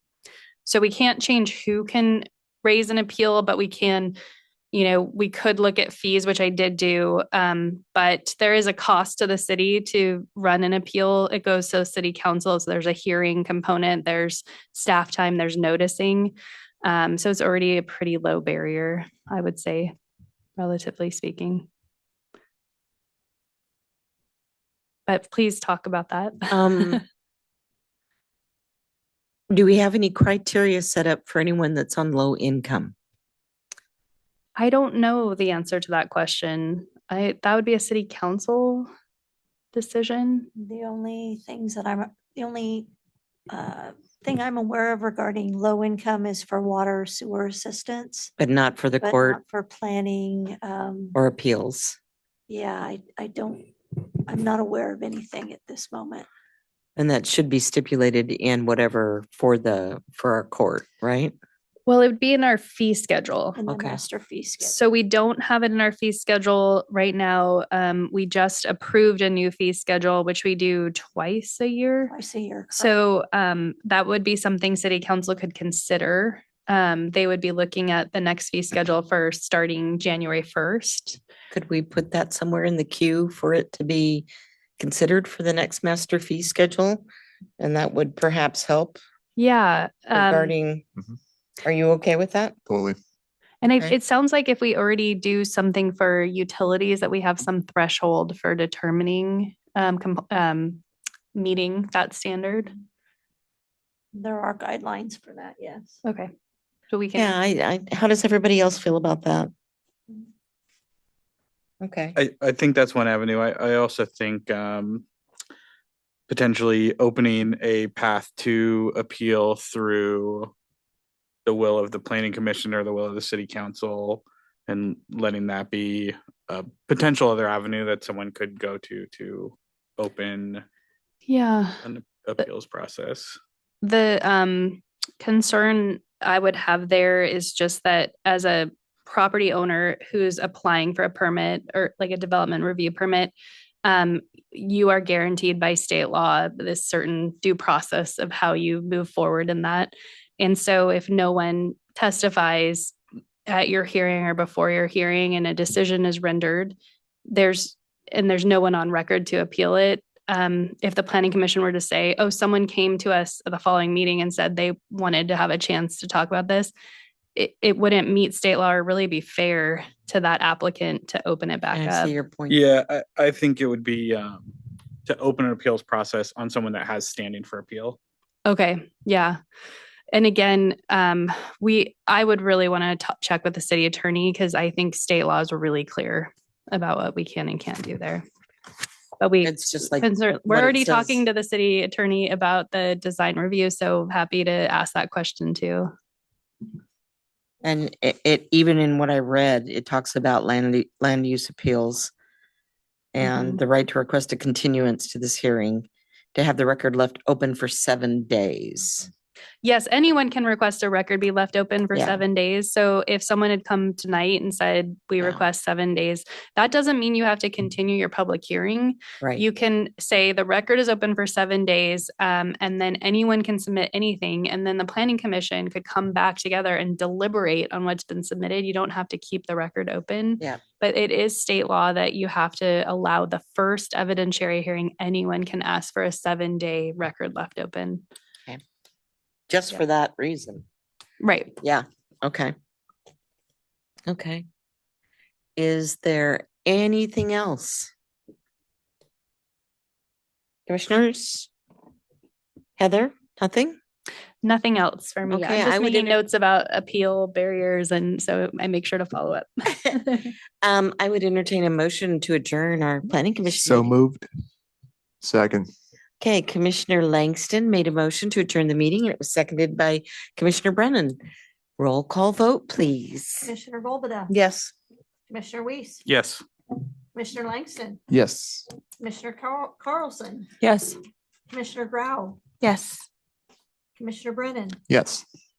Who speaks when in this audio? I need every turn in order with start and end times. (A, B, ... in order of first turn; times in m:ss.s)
0:00.6-0:04.2 A
0:04.7-0:19.9 A
0:20.6-0:21.6 A
0:25.1-0:27.0 A
0:26.5-0:27.0 B
0:29.5-0:32.9 B
0:34.6-0:38.9 A
0:39.7-0:40.5 A
0:40.6-0:42.9 C
0:43.5-0:48.3 C
0:48.4-0:49.4 B
0:49.0-0:51.2 C
0:51.1-0:52.0 B
0:52.5-0:53.7 C
0:54.3-0:56.2 C
0:57.0-1:01.3 B
1:01.8-1:03.6 A
1:03.6-1:04.8 C
1:03.7-1:04.0 B
1:04.6-1:12.1 A
1:12.1-1:12.9 C
1:12.7-1:21.2 A
1:21.5-1:24.3 B
1:24.8-1:27.0 B
1:27.6-1:29.0 B
1:29.4-1:30.5 A
1:30.1-1:30.8 B
1:31.6-1:32.5 B
1:32.7-1:33.0 D
1:33.6-1:40.8 A
1:41.3-1:42.7 A
1:44.1-1:46.0 C
1:46.0-1:46.3 A
1:46.9-1:47.3 A
1:47.2-1:49.5 B
1:51.8-1:52.2 B
1:52.2-1:55.0 E
1:56.3-2:00.5 E
2:01.4-2:10.6 E
2:11.2-2:11.8 A
2:11.8-2:13.4 E
2:13.8-2:23.3 A
2:23.8-2:32.9 A
2:33.5-2:36.7 A
2:37.3-2:46.7 A
2:47.3-2:52.1 A
2:51.7-2:52.6 B
2:52.5-2:58.0 E
2:58.4-2:59.4 A
3:00.1-3:08.2 A
3:09.2-3:15.9 A
3:09.4-3:11.2 B
3:17.6-3:22.1 B
3:23.1-3:29.1 B
3:23.2-3:23.6 A
3:29.6-3:58.0 A
3:31.9-3:32.2 B
3:59.5-4:00.6 B
4:01.2-4:01.6 A
4:01.6-4:02.5 B
4:04.1-4:04.4 B
4:05.6-4:07.9 B
4:10.7-4:11.5 B
4:12.8-4:13.8 B
4:14.4-4:20.3 A
4:15.3-4:16.2 B
4:20.6-4:23.9 B
4:23.6-4:24.3 D
4:25.2-4:25.7 D
4:26.2-4:31.2 B
4:31.8-4:33.5 B
4:33.4-4:34.3 C
4:34.3-4:34.7 B
4:35.3-4:36.0 C
4:36.0-4:36.4 E
4:37.1-4:38.0 C
4:38.1-4:38.6 D
4:39.0-4:40.5 C
4:40.6-4:40.9 A
4:41.5-4:42.4 C
4:42.6-4:42.9 A
4:44.0-4:44.8 C
4:44.9-4:45.2 D